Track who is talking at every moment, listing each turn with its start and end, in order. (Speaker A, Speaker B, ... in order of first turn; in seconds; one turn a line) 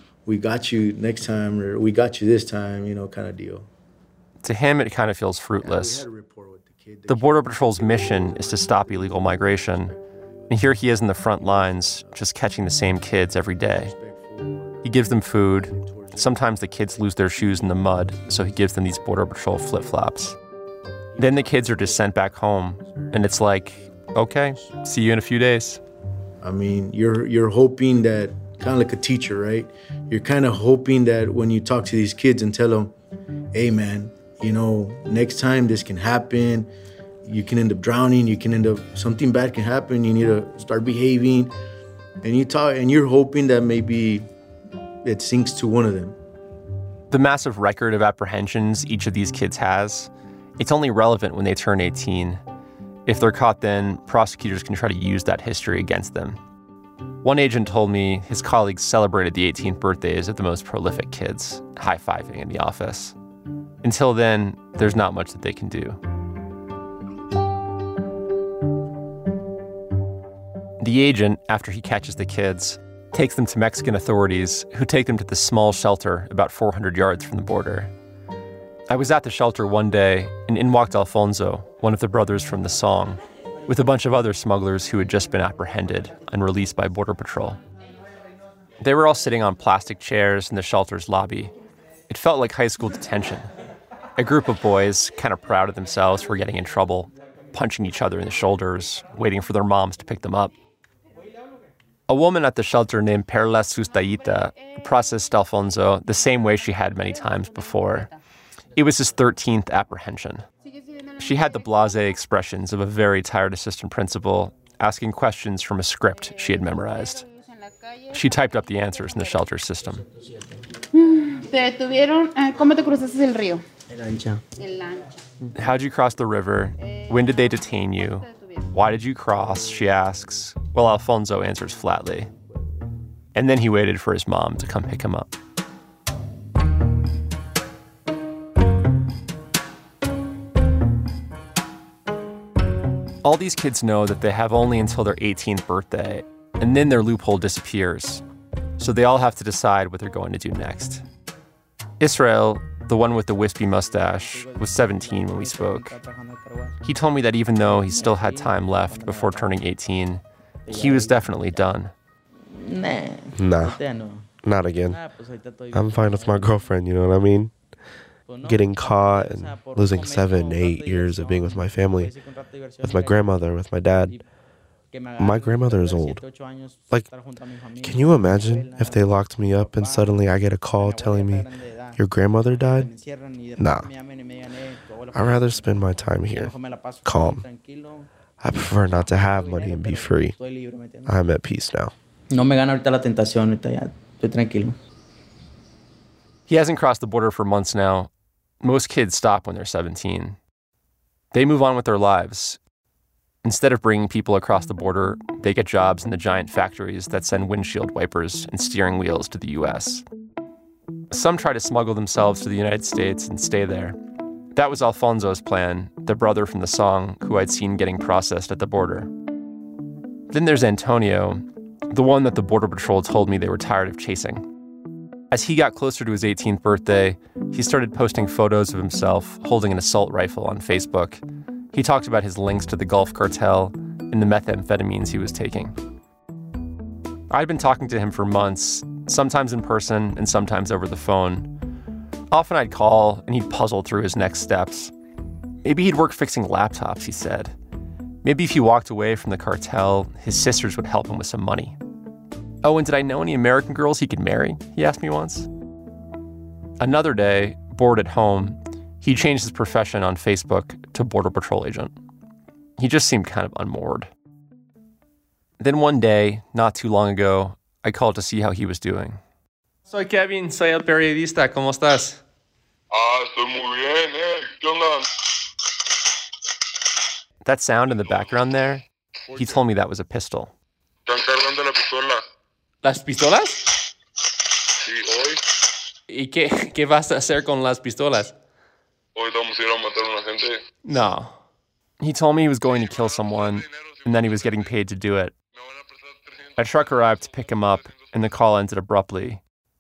Speaker A: 0.3-3.7
Speaker B: 4.4-6.1
Speaker A: 5.6-10.6
Speaker B: 7.1-9.9
Speaker B: 10.5-13.9
Speaker A: 11.4-12.2
Speaker A: 13.6-14.9
Speaker B: 14.8-20.4
Speaker A: 15.5-17.0
Speaker A: 21.1-22.2
Speaker B: 21.2-25.8
Speaker A: 22.8-23.4
Speaker A: 26.4-32.9
Speaker A: 33.5-36.7
Speaker A: 37.2-41.5
Speaker A: 42.2-44.3
Speaker A: 45.0-46.2
Speaker B: 47.1-52.4
Speaker B: 53.1-56.4
Speaker B: 57.2-63.2
Speaker B: 63.8-66.0
Speaker B: 70.8-77.9
Speaker B: 78.9-87.6
Speaker B: 88.8-91.5
Speaker B: 92.1-93.5
Speaker B: 94.2-100.5
Speaker B: 102.1-108.1
Speaker B: 108.8-110.5
Speaker B: 111.2-117.2
Speaker B: 118.1-120.0
Speaker C: 121.0-123.6
Speaker D: 124.0-124.4
Speaker C: 124.6-125.1
Speaker B: 125.5-132.3
Speaker B: 133.3-135.3
Speaker B: 143.2-148.2
Speaker B: 148.8-151.0
Speaker B: 152.0-156.0
Speaker D: 154.1-156.8
Speaker B: 156.8-161.9
Speaker D: 157.6-159.5
Speaker D: 160.7-161.3
Speaker D: 162.5-164.3
Speaker E: 163.4-163.8
Speaker E: 164.4-165.0
Speaker D: 164.9-166.6
Speaker E: 165.7-167.6
Speaker D: 168.3-173.3
Speaker E: 168.4-172.1
Speaker E: 172.8-174.2
Speaker D: 174.9-179.1
Speaker E: 175.2-176.2
Speaker E: 177.8-182.9
Speaker D: 179.8-180.1
Speaker D: 180.8-182.0
Speaker D: 182.6-185.7
Speaker E: 183.6-183.9
Speaker E: 185.1-187.4
Speaker D: 186.3-188.1
Speaker E: 188.4-190.3
Speaker D: 189.0-191.1
Speaker E: 191.1-191.9
Speaker D: 192.3-194.8
Speaker B: 196.5-198.1
Speaker B: 198.6-200.4
Speaker B: 201.3-202.6
Speaker B: 203.4-210.1
Speaker B: 211.1-214.0
Speaker B: 214.5-219.1
Speaker B: 220.3-224.5
Speaker B: 225.3-231.2
Speaker B: 231.7-235.8
Speaker B: 237.3-241.5
Speaker B: 242.3-244.9
Speaker B: 245.6-247.6
Speaker B: 248.2-251.8
Speaker B: 252.6-255.5
Speaker B: 256.8-261.9
Speaker B: 262.8-264.1
Speaker B: 265.6-269.2
Speaker B: 269.9-272.2
Speaker F: 272.9-275.1
Speaker B: 277.4-280.5
Speaker F: 281.1-282.2
Speaker G: 282.8-283.7
Speaker F: 284.8-285.4
Speaker G: 286.1-288.3
Speaker F: 289.2-290.6
Speaker G: 290.9-291.3
Speaker B: 290.9-291.2
Speaker B: 292.0-295.3
Speaker F: 293.2-293.6
Speaker F: 295.6-296.5
Speaker B: 296.6-299.4